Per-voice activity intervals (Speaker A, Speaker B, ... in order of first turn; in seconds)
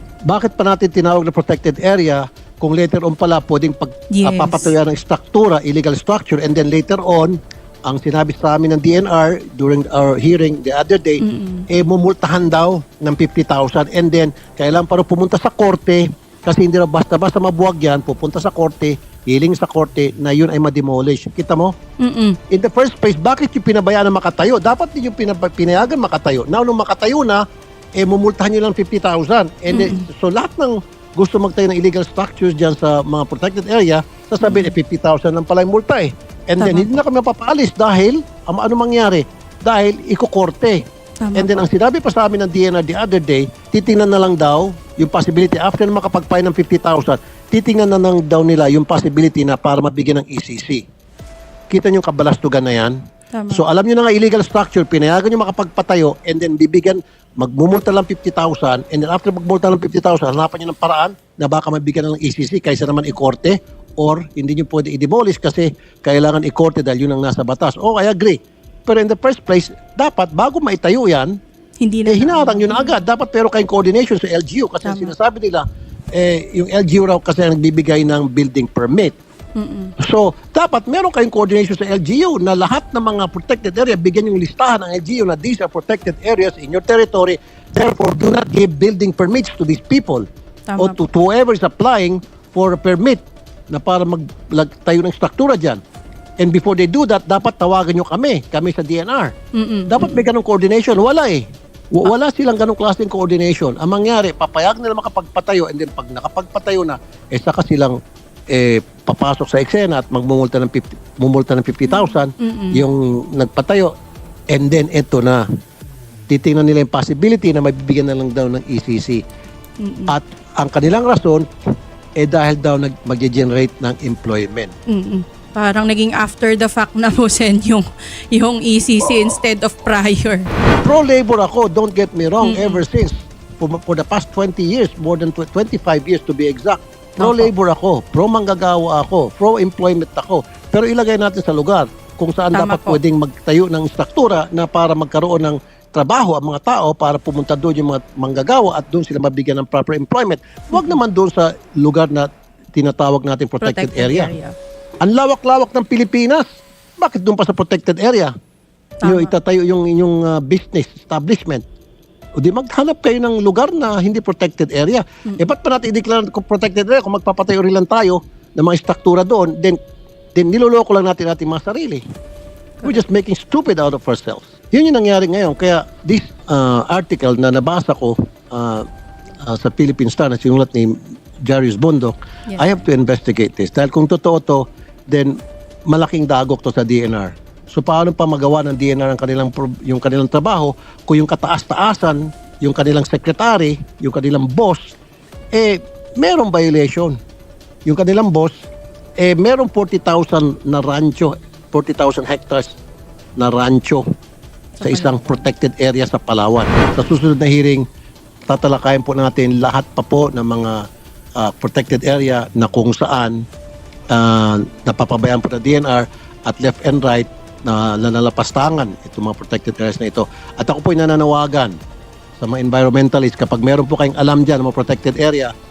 Speaker A: 0.3-21.7, 22.5-27.4, 28.0-40.8, 41.4-50.9, 51.7-53.0, 53.5-71.3, 72.1-75.6, 76.1-79.2, 80.0-90.2, 90.8-95.8, 96.4-99.3, 99.9-108.0, 108.5-113.9, 114.5-115.4, 116.3-119.2, 120.1-121.5, 122.2-124.7, 130.8-154.3, 155.0-156.4, 157.0-158.3, 159.0-161.6, 162.4-169.8, 170.3-172.0, 172.8-178.8, 179.4-180.9, 181.4-185.3, 185.9-194.9, 195.5-197.2, 197.8-198.7, 199.2-202.8, 203.4-204.0, 204.8-207.8, 208.5-210.8, 211.4-213.4, 214.1-221.7, 222.4-225.5
Speaker B: 4.1-4.7, 11.2-11.7, 22.0-22.4, 29.7-30.1, 34.4-34.8, 36.6-36.9, 41.2-41.6, 53.3-53.6, 71.8-72.9, 74.8-75.1, 79.6-79.9, 90.7-91.0, 99.5-100.3, 111.8-112.8, 119.8-120.2, 124.9-130.5, 132.4-132.8, 137.2-137.5, 142.5-143.0, 150.7-151.0, 153.6-154.5, 159.0-159.3, 182.5-182.8, 204.8-205.4